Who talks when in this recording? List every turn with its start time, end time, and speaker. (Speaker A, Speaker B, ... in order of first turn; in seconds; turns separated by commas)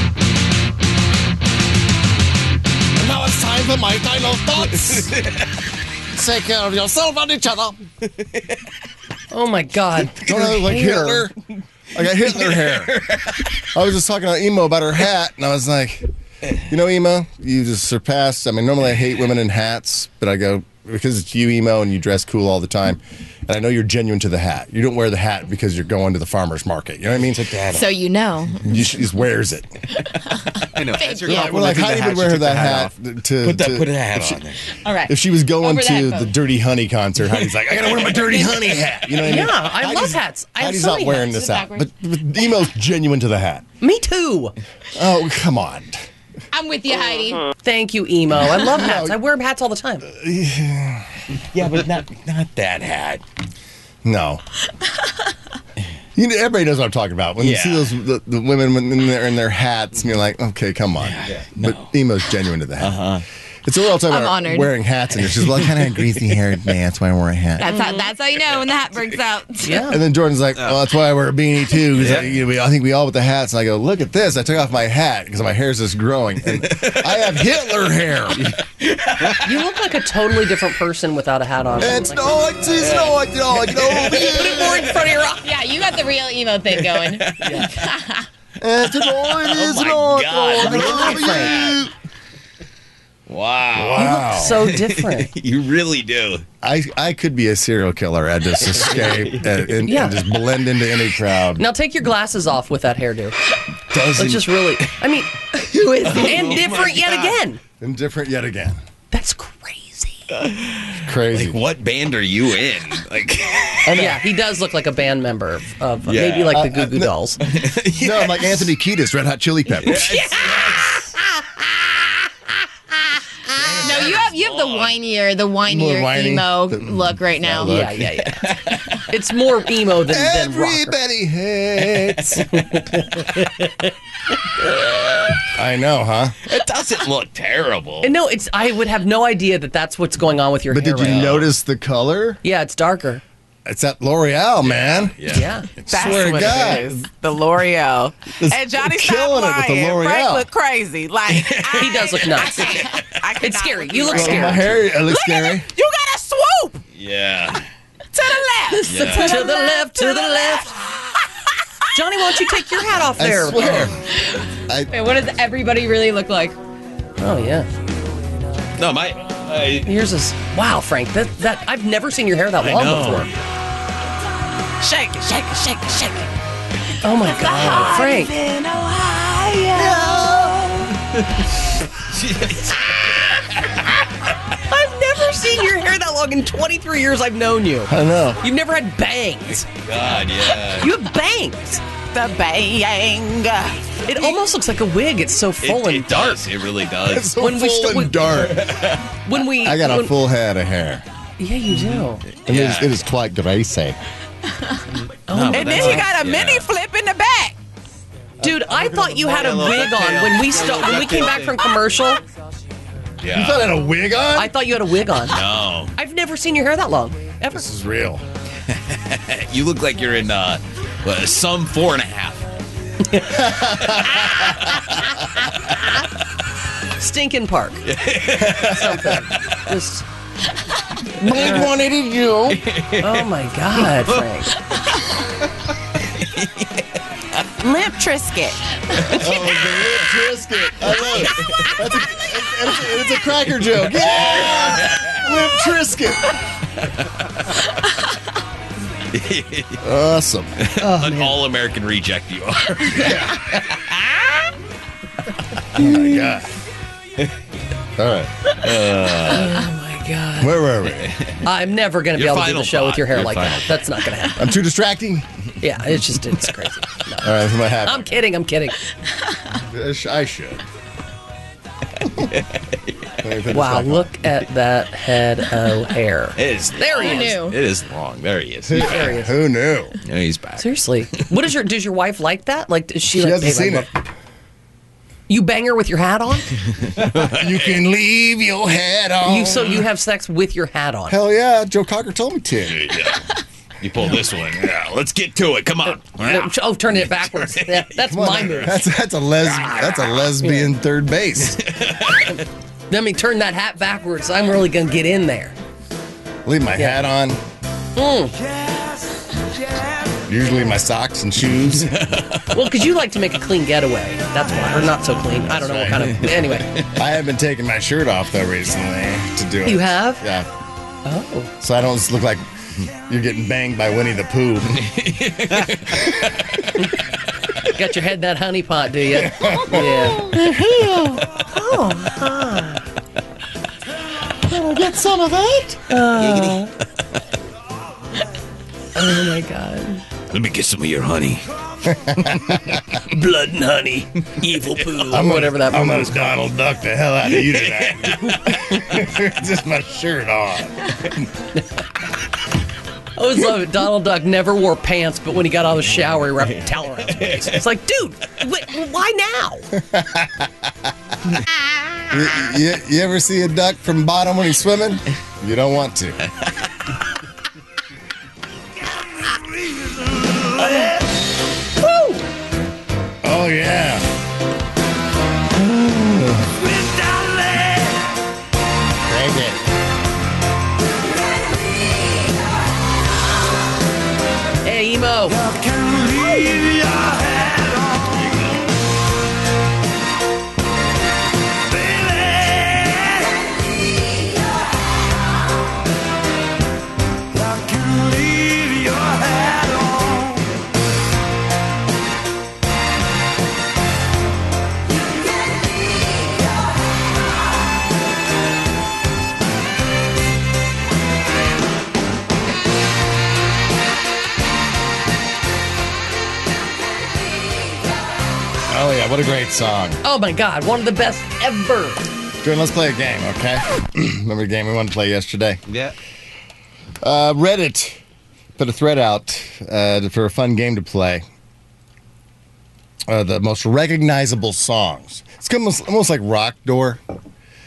Speaker A: 3.0-5.2, Speaker B: 4.8-5.4, Speaker A: 6.1-7.8, Speaker C: 9.3-11.3, Speaker A: 10.2-11.3, Speaker A: 11.9-13.0, Speaker B: 12.2-13.6, Speaker A: 13.7-16.1, Speaker A: 16.6-27.4, Speaker B: 27.2-27.9, Speaker D: 27.7-28.6, Speaker A: 28.6-29.7, Speaker B: 30.1-34.7, Speaker D: 30.8-31.6, Speaker A: 31.2-34.2, Speaker D: 34.8-36.3, Speaker A: 35.0-43.6, Speaker C: 39.2-41.4, Speaker D: 41.3-41.9, Speaker C: 43.8-44.5, Speaker A: 44.9-46.0, Speaker D: 46.5-47.5, Speaker C: 47.6-50.1, Speaker A: 48.3-49.2, Speaker A: 50.1-51.1, Speaker B: 51.5-53.2, Speaker A: 54.0-54.4, Speaker A: 56.1-67.7, Speaker B: 57.4-57.9, Speaker B: 61.0-61.9, Speaker B: 62.8-63.2, Speaker D: 63.9-64.7, Speaker D: 67.6-69.8, Speaker C: 69.6-70.0, Speaker A: 69.9-78.5, Speaker B: 71.9-72.3, Speaker B: 76.5-77.4, Speaker B: 78.4-79.6, Speaker C: 79.4-82.5, Speaker A: 81.8-85.0, Speaker B: 82.8-84.9, Speaker C: 83.9-85.5, Speaker D: 85.4-88.2, Speaker B: 86.7-87.8, Speaker C: 87.4-87.7, Speaker A: 88.6-91.9, Speaker B: 88.9-91.8, Speaker C: 90.6-91.6, Speaker B: 93.3-96.4, Speaker A: 93.7-94.7, Speaker C: 94.0-95.3, Speaker A: 96.6-101.6, Speaker B: 98.6-99.6, Speaker C: 99.8-100.2, Speaker C: 101.6-103.4, Speaker B: 103.9-104.9, Speaker C: 104.1-105.3, Speaker D: 105.6-106.5, Speaker C: 105.9-107.6, Speaker B: 106.0-107.4, Speaker A: 107.8-108.8, Speaker C: 109.1-110.2, Speaker B: 110.5-113.9, Speaker A: 111.0-111.6, Speaker A: 113.8-114.2, Speaker C: 113.9-117.4, Speaker B: 116.0-116.6, Speaker A: 116.5-117.1, Speaker B: 117.4-118.7, Speaker A: 118.0-120.1, Speaker B: 119.8-121.1, Speaker C: 120.0-120.3, Speaker B: 123.5-125.0, Speaker D: 123.8-127.8, Speaker A: 125.6-128.0, Speaker C: 127.6-128.4, Speaker B: 128.2-129.0, Speaker C: 129.1-130.9, Speaker A: 130.1-132.4, Speaker B: 131.9-132.6, Speaker C: 132.5-133.9, Speaker A: 135.5-136.4, Speaker B: 136.4-138.1, Speaker C: 138.0-141.4, Speaker A: 140.7-142.4, Speaker B: 141.0-141.5, Speaker C: 142.4-143.2, Speaker A: 143.7-145.2, Speaker B: 144.6-146.4, Speaker C: 145.3-145.7, Speaker E: 145.9-156.8, Speaker A: 145.9-147.0, Speaker A: 148.3-150.5, Speaker B: 151.3-153.2, Speaker C: 151.8-152.8, Speaker C: 153.4-154.7, Speaker A: 154.1-155.7, Speaker B: 156.9-157.7, Speaker E: 158.1-160.5, Speaker C: 158.7-160.8, Speaker B: 158.8-159.4, Speaker D: 158.9-159.9, Speaker C: 161.9-163.9, Speaker A: 163.2-164.0, Speaker D: 164.3-166.6, Speaker C: 167.2-167.7, Speaker B: 168.8-169.9, Speaker C: 169.8-173.3, Speaker B: 172.6-173.3, Speaker E: 174.8-176.3, Speaker C: 177.0-178.3, Speaker E: 177.1-180.9, Speaker A: 179.7-180.6, Speaker B: 182.0-183.4, Speaker C: 184.5-191.8, Speaker A: 187.9-188.4, Speaker B: 189.8-190.9, Speaker E: 192.1-194.2, Speaker C: 194.0-196.5, Speaker B: 195.6-197.3, Speaker A: 197.1-198.7, Speaker C: 197.4-198.4, Speaker B: 198.5-199.0, Speaker C: 199.2-200.2, Speaker A: 199.5-201.0, Speaker C: 201.4-202.2, Speaker B: 201.7-203.0, Speaker A: 202.4-204.0, Speaker B: 204.9-206.7, Speaker C: 205.3-206.1, Speaker E: 205.5-207.6, Speaker C: 208.4-212.2, Speaker B: 208.4-211.6, Speaker B: 213.2-213.7, Speaker A: 213.3-214.5, Speaker C: 214.3-215.4, Speaker B: 215.3-215.9, Speaker C: 215.9-217.7, Speaker A: 217.5-218.2, Speaker B: 218.9-222.5, Speaker A: 223.2-224.6, Speaker C: 226.9-227.8, Speaker B: 227.8-229.6, Speaker A: 228.4-228.9, Speaker C: 228.5-230.1, Speaker A: 231.2-232.6, Speaker C: 231.3-231.7, Speaker B: 232.5-233.2, Speaker C: 233.0-234.6, Speaker B: 233.8-234.2, Speaker B: 236.1-236.7, Speaker E: 237.6-238.6, Speaker B: 239.0-239.9, Speaker A: 239.1-246.3, Speaker B: 240.9-241.7, Speaker B: 244.0-245.1, Speaker B: 249.1-249.8, Speaker A: 249.8-251.3, Speaker B: 250.6-253.9, Speaker A: 252.9-253.4, Speaker A: 255.7-256.5, Speaker B: 255.8-256.2, Speaker A: 258.0-258.3, Speaker B: 258.6-259.6, Speaker C: 259.2-260.6, Speaker A: 260.4-261.1, Speaker B: 260.9-261.3, Speaker C: 261.4-264.6, Speaker B: 262.1-263.8, Speaker A: 264.4-265.2, Speaker C: 265.6-268.8, Speaker A: 267.2-268.1, Speaker A: 269.5-270.6, Speaker B: 272.0-273.1, Speaker A: 273.2-274.1, Speaker C: 273.5-277.4, Speaker B: 276.4-279.1, Speaker D: 276.8-277.6, Speaker A: 278.6-280.0, Speaker C: 278.7-279.3, Speaker B: 280.0-280.7, Speaker C: 280.6-283.9, Speaker A: 283.1-283.9, Speaker C: 285.3-286.5, Speaker B: 286.9-287.4, Speaker A: 287.1-289.8, Speaker C: 289.2-291.2, Speaker A: 291.1-292.9, Speaker B: 292.6-293.2, Speaker B: 293.8-297.9, Speaker C: 296.2-298.8, Speaker A: 298.0-301.6, Speaker C: 300.4-300.7, Speaker B: 301.4-302.4, Speaker C: 302.3-305.6, Speaker A: 306.4-307.4, Speaker C: 306.7-307.0, Speaker C: 307.9-308.3, Speaker A: 310.2-311.9, Speaker B: 311.8-312.5, Speaker C: 312.5-316.7, Speaker A: 315.4-316.3, Speaker B: 316.1-316.9, Speaker A: 316.9-320.5, Speaker C: 319.6-320.2, Speaker C: 321.0-321.5, Speaker A: 321.6-324.8, Speaker B: 324.7-326.4, Speaker C: 327.7-330.3, Speaker A: 329.1-331.2, Speaker C: 331.4-332.8, Speaker A: 334.4-335.8, Speaker C: 335.9-336.7, Speaker B: 336.1-336.7, Speaker C: 338.9-340.0, Speaker B: 340.3-341.5, Speaker A: 341.9-342.8, Speaker C: 342.9-346.4, Speaker B: 344.7-345.2, Speaker A: 345.1-350.9, Speaker B: 347.5-348.8, Speaker C: 353.1-359.7, Speaker B: 356.4-357.6, Speaker A: 359.9-360.5, Speaker A: 362.1-366.2, Speaker C: 371.8-372.2, Speaker A: 373.2-374.1, Speaker A: 375.5-376.7, Speaker A: 379.1-379.6, Speaker C: 384.6-385.5, Speaker A: 418.7-420.0, Speaker C: 420.0-422.0, Speaker A: 422.4-425.6, Speaker B: 425.7-425.9, Speaker A: 427.0-428.0, Speaker A: 428.6-431.2, Speaker A: 433.1-437.0